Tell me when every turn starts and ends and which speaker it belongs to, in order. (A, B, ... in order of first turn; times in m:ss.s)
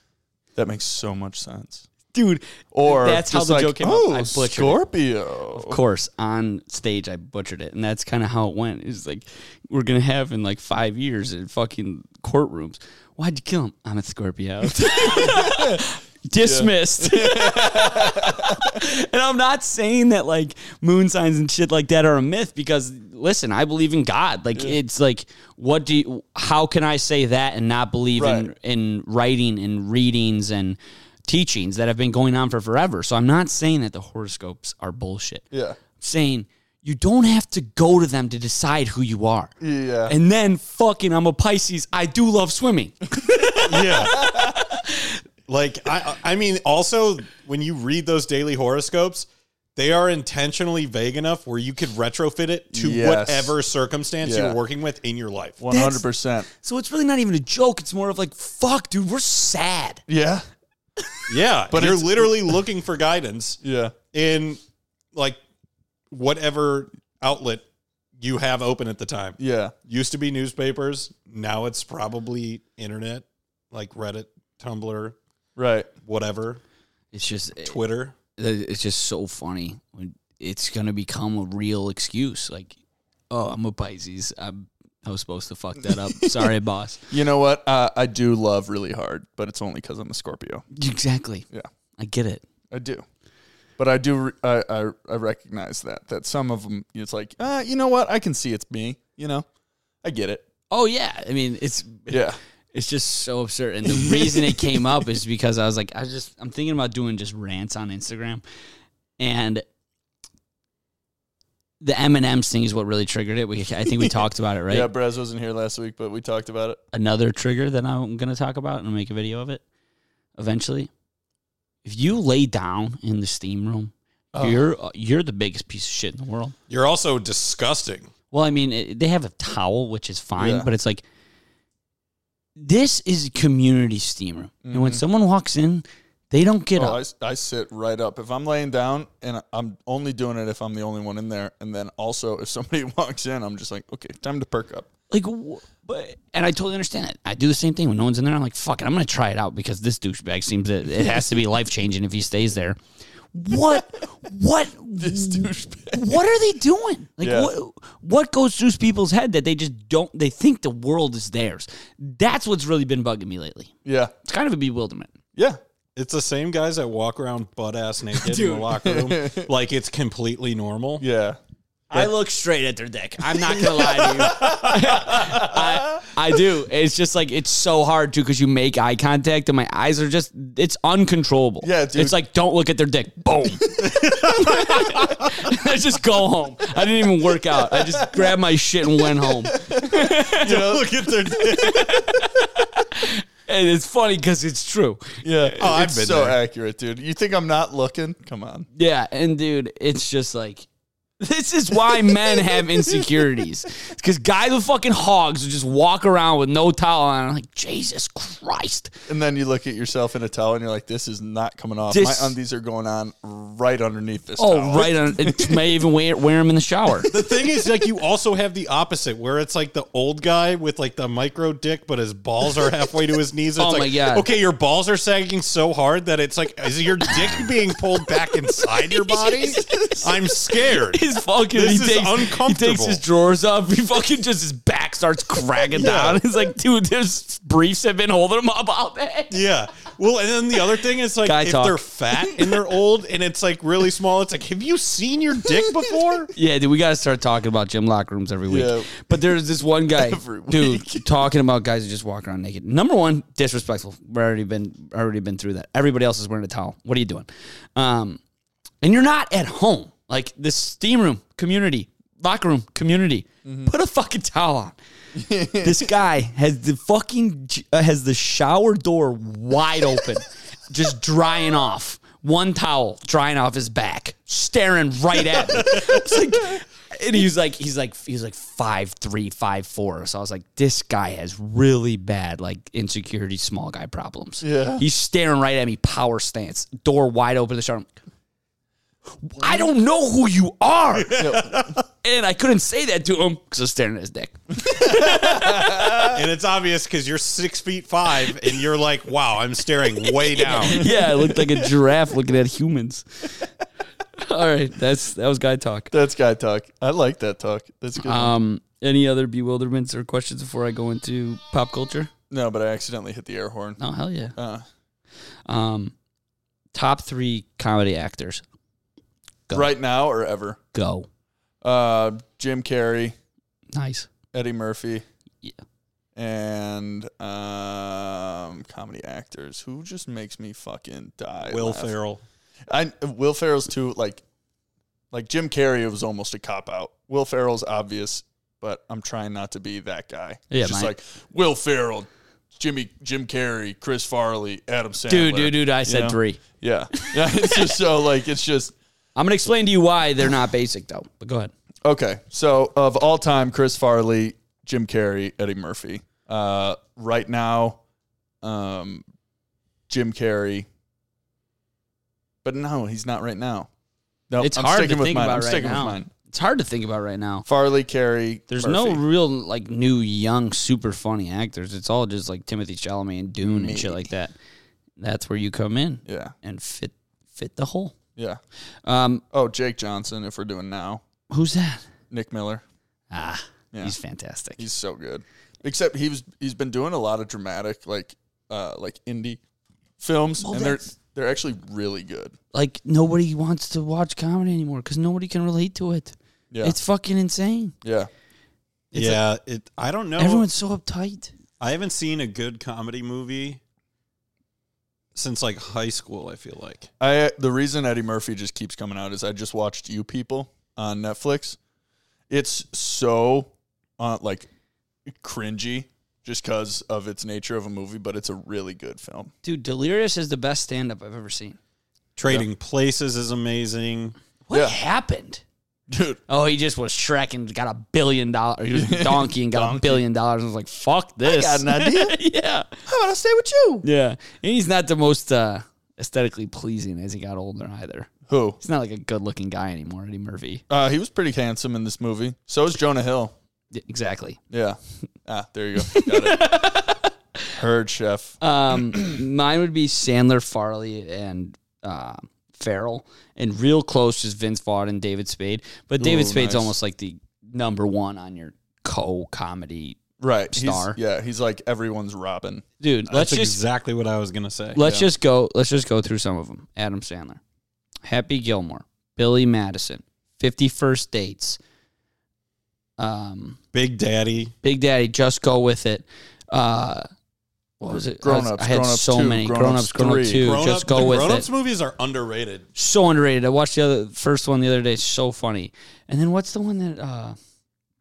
0:00.6-0:01.9 A
0:02.1-0:04.8 B
0:02.7-0:05.8 A
0:05.5-0:39.5 B
0:14.7-0:15.8 A
0:16.4-0:18.8 A
0:28.2-0:28.5 A
0:35.5-0:35.8 A
0:39.6-0:40.2 A
0:40.1-0:45.1 B
0:43.2-0:44.6 A
0:43.6-0:44.2 C
0:45.5-0:55.6 C
0:52.7-0:53.6 A
0:54.2-0:54.6 A
0:55.6-0:56.5 A
0:55.7-1:00.0 B
1:00.1-1:00.4 A
1:01.3-1:03.6 C
1:01.7-1:02.5 A
1:03.6-1:03.9 A
1:04.1-1:04.6 C
1:05.1-1:05.4 C
1:06.1-1:07.6 C
1:08.2-1:15.2 C
1:09.4-1:09.7 A
1:15.6-1:15.9 A
1:16.0-1:16.6 C
1:17.1-1:17.8 B
1:17.6-1:18.2 C
1:18.4-1:22.8 B
1:23.3-1:27.0 B
1:25.9-1:26.5 A
1:27.1-1:30.6 A
1:30.7-1:31.5 B
1:32.0-1:32.4 B
1:32.7-1:33.0 A
1:33.8-1:39.5 A
1:40.0-1:40.4 A
1:40.7-1:48.4 B
1:42.1-1:42.4 A
1:49.2-1:49.6 B
1:51.8-1:54.9 B
1:54.7-1:56.8 A
1:56.9-1:59.6 B
2:00.4-2:00.9 B
2:01.8-2:06.5 B
2:04.3-2:04.7 A
2:06.7-2:08.1 C
2:08.3-2:11.0 B
2:10.4-2:10.7 A
2:12.6-2:17.0 B
2:14.6-2:15.0 A
2:16.8-2:24.9 A
2:25.1-2:32.8 B
2:33.4-2:43.7 B
2:35.0-2:36.2 A
2:37.2-2:37.5 A
2:43.8-2:44.1 A
2:44.2-2:45.1 B
2:46.0-2:51.0 C
2:48.2-2:48.8 B
2:48.8-2:49.5 A
2:51.0-2:51.4 A
2:51.9-3:15.5 B
2:54.2-2:54.7 C
2:54.4-2:56.1 A
3:01.6-3:02.2 A
3:03.8-3:05.4 C
3:09.4-3:11.1 A
3:10.4-3:12.1 C
3:15.2-3:18.7 A
3:15.6-3:16.4 C
3:18.8-3:20.7 B
3:21.2-3:28.9 B
3:29.1-3:35.6 A
3:31.9-3:32.3 B
3:34.4-3:37.1 B
3:37.1-3:53.0 C
3:43.6-3:44.3 B
3:47.1-3:47.5 B
3:48.2-3:59.3 B
3:55.7-3:56.2 C
3:59.3-4:06.3 C
4:01.2-4:01.8 B
4:06.4-4:18.2 B
4:08.5-4:09.4 A
4:09.9-4:11.1 A
4:18.8-4:24.8 B
4:25.2-4:25.9 A
4:25.6-4:47.9 B
4:44.4-4:44.8 A
4:49.2-4:51.3 B
4:51.0-4:51.8 C
4:51.2-4:51.8 A
4:52.0-4:55.9 B
4:54.6-4:56.2 A
4:56.1-5:00.9 C
5:00.3-5:03.3 B
5:00.7-5:01.7 A
5:04.2-5:05.9 B
5:05.9-5:08.3 A
5:08.0-5:12.1 B
5:12.3-5:13.8 A
5:13.8-5:14.4 B
5:14.4-5:14.6 A
5:15.5-5:15.9 B
5:16.7-5:18.4 B
5:19.5-5:19.7 B
5:19.5-5:20.6 A
5:20.7-5:21.1 B
5:21.6-5:23.2 A
5:23.7-5:24.1 B
5:24.3-5:25.0 A
5:26.2-5:31.9 A
5:31.4-5:32.2 C
5:32.7-5:34.2 A
5:35.1-5:48.7 A
5:40.5-5:40.9 B
5:45.1-5:46.4 B
5:46.9-5:47.7 B
5:49.2-5:51.5 B
5:51.8-5:57.8 A
5:58.4-5:59.0 A
5:59.9-6:00.7 A
6:02.4-6:03.7 A
6:04.3-6:06.1 A
6:04.4-6:07.5 B
6:07.5-6:09.0 A
6:08.5-6:14.3 B
6:13.4-6:14.0 A
6:15.0-6:18.0 B
6:16.1-6:16.3 A
6:18.9-6:19.2 B
6:19.3-6:21.0 A
6:21.3-6:21.8 B
6:22.1-6:22.6 A
6:23.1-6:24.6 B
6:24.6-6:29.4 A
6:30.0-6:32.4 A
6:30.4-6:30.9 B
6:32.5-6:37.7 B
6:36.5-6:36.8 A
6:37.8-6:38.1 A
6:38.9-6:40.4 C
6:40.2-6:41.3 B
6:41.6-6:43.6 C
6:45.2-6:46.9 C
6:47.0-6:51.6 A
6:52.3-6:54.5 A
6:55.1-6:59.3 A
6:59.4-7:01.6 B
7:02.2-7:04.2 C
7:04.5-7:05.4 B
7:05.9-7:06.2 A
7:06.3-7:12.7 B
7:08.7-7:10.0 A
7:11.2-7:12.2 A
7:12.9-7:13.8 A
7:13.8-7:20.6 B
7:18.3-7:18.6 A
7:20.7-7:23.3 A
7:23.7-7:24.4 B
7:24.5-7:26.8 A
7:25.8-7:27.0 B
7:27.5-7:28.4 A
7:28.4-7:41.0 B
7:36.0-7:36.7 A
7:40.2-7:42.6 A
7:42.8-7:43.6 B
7:43.1-7:44.8 C
7:44.8-7:47.4 B
7:44.8-7:45.1 A
7:48.0-7:51.6 B
7:53.0-7:53.6 B
7:53.7-7:54.5 C
7:54.6-7:57.1 B
7:57.8-8:01.5 B
7:58.2-8:00.7 A
8:00.4-8:02.7 C
8:02.8-8:07.4 B